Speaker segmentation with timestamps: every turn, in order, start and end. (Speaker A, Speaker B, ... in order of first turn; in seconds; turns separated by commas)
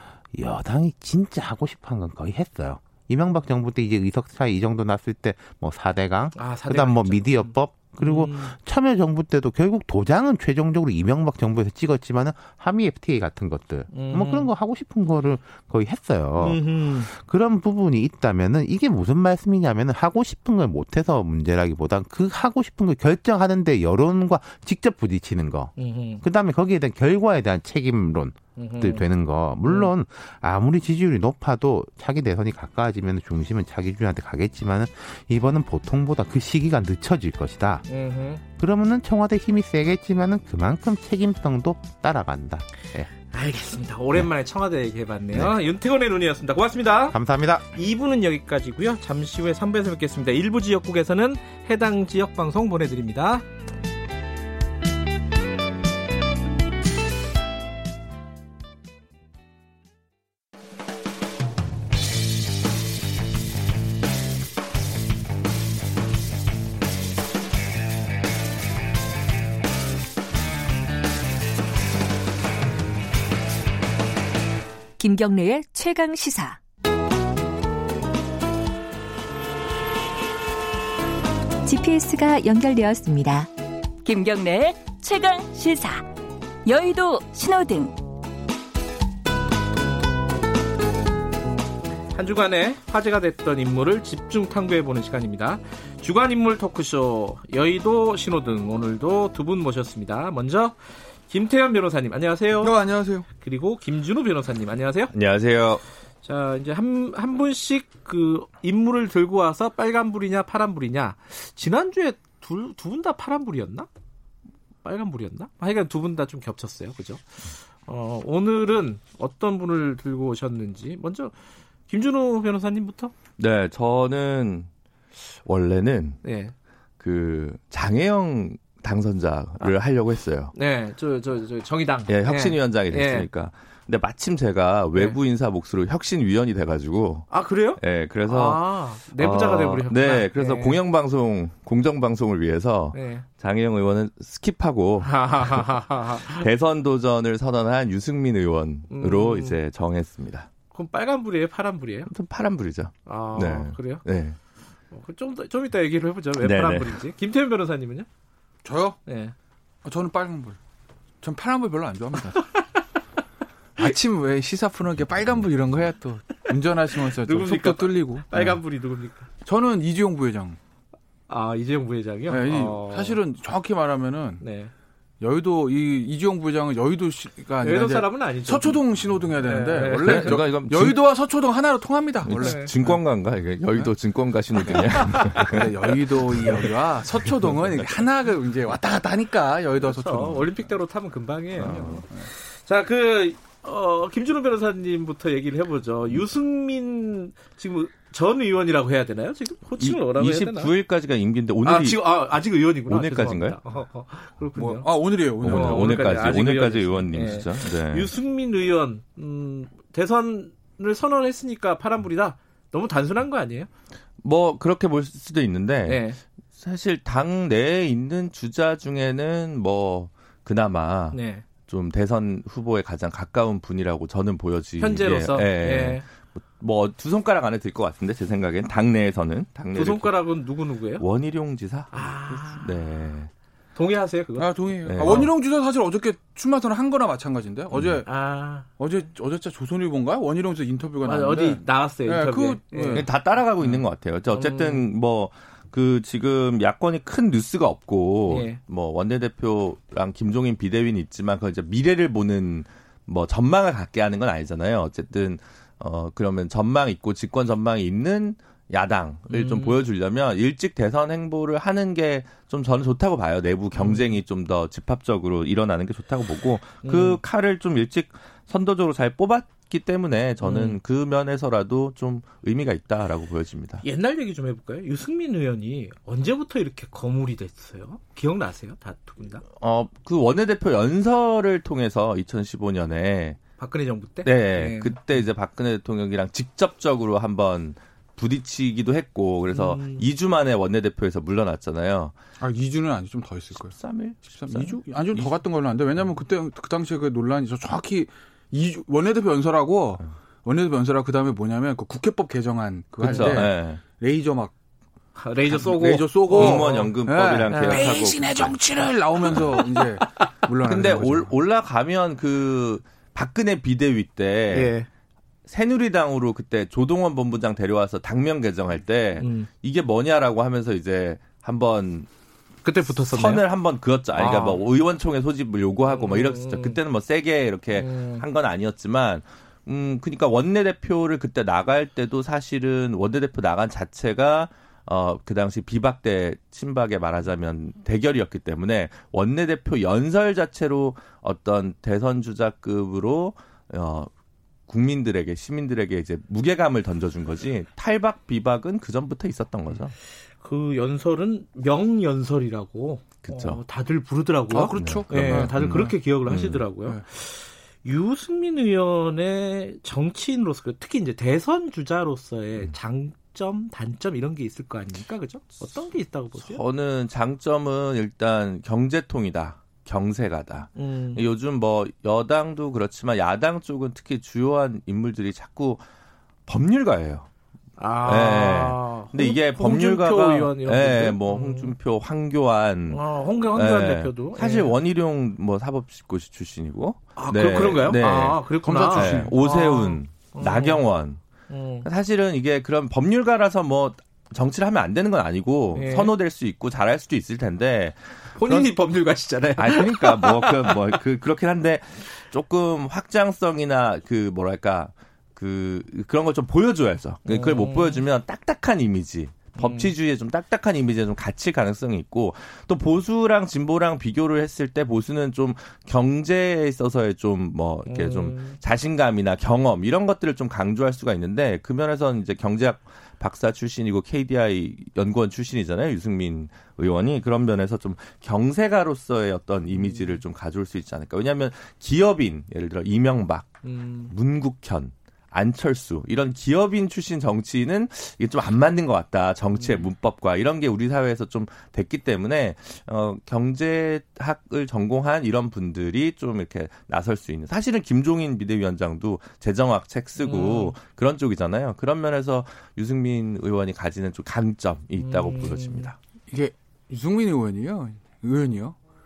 Speaker A: 0.3-37.8, Speaker B: 6.3-8.6, Speaker B: 13.9-14.5, Speaker B: 16.4-17.1, Speaker B: 25.8-26.2, Speaker B: 28.6-29.1, Speaker B: 29.6-29.9, Speaker B: 37.9-38.4, Speaker A: 38.5-43.1, Speaker B: 43.2-47.2, Speaker A: 47.1-47.6, Speaker B: 47.7-53.4, Speaker C: 75.0-76.6, Speaker C: 81.6-83.5, Speaker C: 84.0-86.0, Speaker C: 86.7-87.9, Speaker B: 92.1-105.1, Speaker D: 102.6-103.3, Speaker E: 105.1-105.8, Speaker B: 106.2-113.9, Speaker B: 114.8-121.3, Speaker B: 121.9-123.1, Speaker E: 123.4-124.7, Speaker E: 125.4-126.2, Speaker B: 126.2-126.5, Speaker E: 127.0-130.5, Speaker B: 130.5-133.3, Speaker E: 132.1-145.7, Speaker B: 137.3-140.8, Speaker B: 142.9-143.2, Speaker B: 145.0-146.5, Speaker E: 146.3-150.5, Speaker B: 148.9-149.6, Speaker B: 150.7-152.1, Speaker E: 152.1-154.4, Speaker B: 153.0-154.0, Speaker B: 154.9-158.1, Speaker E: 156.4-157.0, Speaker D: 158.6-159.0, Speaker B: 159.1-159.3, Speaker D: 159.8-160.6, Speaker D: 161.2-162.5, Speaker B: 162.3-162.8, Speaker D: 163.8-168.6, Speaker B: 167.1-169.3, Speaker D: 169.4-170.6, Speaker B: 171.3-173.2, Speaker D: 172.3-174.4, Speaker B: 174.4-174.7, Speaker D: 175.2-183.0, Speaker B: 177.6-178.8, Speaker B: 179.4-180.4, Speaker E: 179.8-181.0, Speaker E: 182.2-186.7, Speaker B: 182.2-182.7, Speaker D: 183.7-190.7, Speaker B: 184.6-185.7, Speaker B: 186.3-186.7, Speaker E: 187.2-187.9, Speaker B: 189.8-200.7, Speaker D: 191.6-192.3, Speaker E: 199.8-202.0, Speaker B: 201.6-213.7, Speaker E: 202.9-203.6, Speaker D: 204.5-206.3, Speaker E: 205.4-208.1, Speaker E: 214.2-230.2, Speaker B: 215.8-216.2, Speaker B: 221.1-221.4, Speaker B: 224.8-226.0, Speaker B: 229.7-231.0, Speaker E: 231.0-233.3, Speaker B: 231.9-232.8, Speaker B: 233.7-235.3, Speaker D: 234.4-238.1, Speaker E: 234.8-235.3, Speaker E: 237.7-238.0, Speaker B: 238.0-238.7, Speaker D: 238.7-243.1, Speaker B: 241.0-244.9, Speaker E: 242.9-273.8, Speaker B: 248.3-248.6, Speaker B: 259.3-259.8, Speaker B: 263.7-264.2, Speaker B: 266.8-267.2, Speaker B: 270.4-270.8, Speaker B: 273.8-279.4, Speaker E: 279.5-283.4, Speaker B: 283.6-285.3, Speaker E: 284.2-292.1, Speaker B: 289.5-290.0, Speaker D: 292.4-304.5, Speaker E: 293.5-295.4, Speaker E: 303.0-303.8, Speaker B: 303.0-303.5, Speaker B: 305.1-306.9, Speaker E: 305.5-309.7, Speaker D: 305.6-311.4, Speaker B: 307.5-308.5, Speaker B: 309.3-310.0, Speaker E: 310.6-314.7, Speaker B: 314.5-314.9, Speaker E: 315.5-322.1, Speaker B: 319.2-319.5, Speaker B: 322.6-323.4, Speaker E: 323.0-344.1, Speaker B: 324.1-324.6, Speaker B: 325.9-326.8, Speaker B: 327.7-328.2, Speaker E: 344.7-349.9, Speaker B: 350.4-366.6, Speaker E: 353.2-353.6, Speaker D: 354.5-355.9, Speaker E: 354.7-356.7, Speaker E: 366.3-375.8, Speaker B: 370.7-371.2, Speaker E: 376.5-377.3, Speaker B: 377.8-381.8, Speaker E: 378.1-391.2, Speaker B: 382.9-384.7, Speaker B: 387.1-390.8, Speaker D: 388.5-389.3, Speaker B: 391.5-391.9, Speaker E: 391.8-398.7, Speaker B: 395.7-396.1, Speaker B: 398.3-400.9, Speaker E: 399.6-455.9, Speaker B: 407.2-408.0, Speaker B: 409.5-409.9, Speaker B: 417.9-418.6, Speaker B: 429.7-430.2, Speaker B: 433.6-434.1, Speaker B: 439.5-439.9, Speaker B: 450.2-450.8, Speaker B: 455.0-455.9, Speaker D: 456.3-458.8